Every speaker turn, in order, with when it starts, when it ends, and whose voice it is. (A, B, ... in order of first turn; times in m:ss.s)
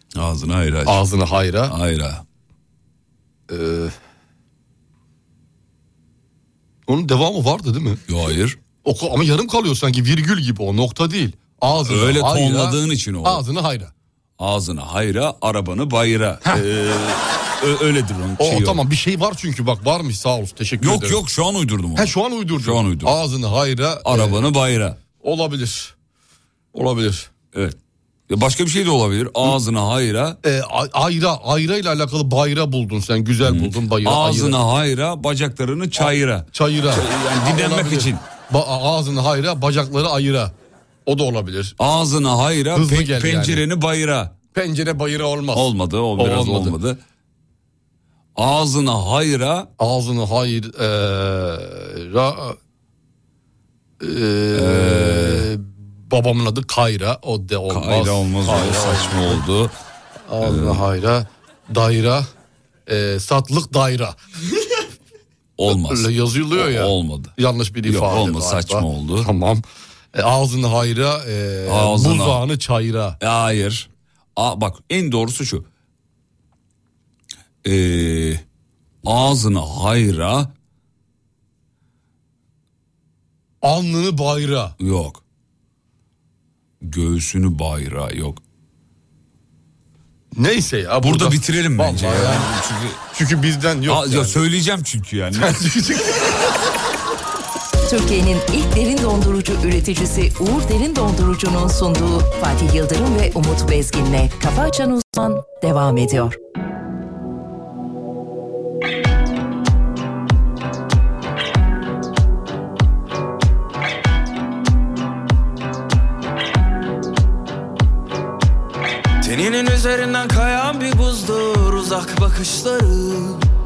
0:00.2-0:01.0 A
0:00.8-0:01.8 B
0:01.7-0:02.2 A
0:03.5-0:03.9 B
0:06.9-0:08.0 B
0:08.1-0:08.6 A
0:08.8-0:13.9 B
0:11.9-0:13.4 A
0:14.4-0:18.8 A
0:18.4-0:21.2 B
0:20.8-0:23.1 A
0:22.0-0:24.4 B
0:24.0-0:25.0 A
0:25.2-0:25.9 B
0:26.7-0:27.3 B
0:28.3-0:30.4 A
0:30.4-0:34.6 B
0:33.4-0:38.2 A
0:36.0-0:40.5 B
0:41.1-0:41.8 B
0:41.8-0:44.4 A
0:42.7-0:43.6 B
0:44.5-0:46.8 B
0:45.5-0:47.0 A
0:48.4-0:49.7 A
0:49.8-0:52.6 B
0:54.0-0:59.4 B
0:54.5-0:55.5 A
0:57.7-0:59.7 A
1:00.3-1:02.3 B
1:00.4-1:00.8 A
1:02.9-1:04.2 B
1:05.6-1:07.3 A
1:05.7-1:13.2 B
1:07.9-1:09.3 A
1:11.7-1:12.4 A
1:13.2-1:15.6 A
1:17.6-1:18.4 A
1:19.0-1:20.5 A
1:23.6-1:24.8 B
1:24.8-1:25.2 A
1:26.8-1:28.4 A
1:30.3-1:32.5 B
1:31.0-1:33.0 A
1:33.1-1:34.4 B
1:33.9-1:35.6 A
1:35.3-1:36.4 B
1:37.8-1:46.4 C
1:59.2-2:03.5 D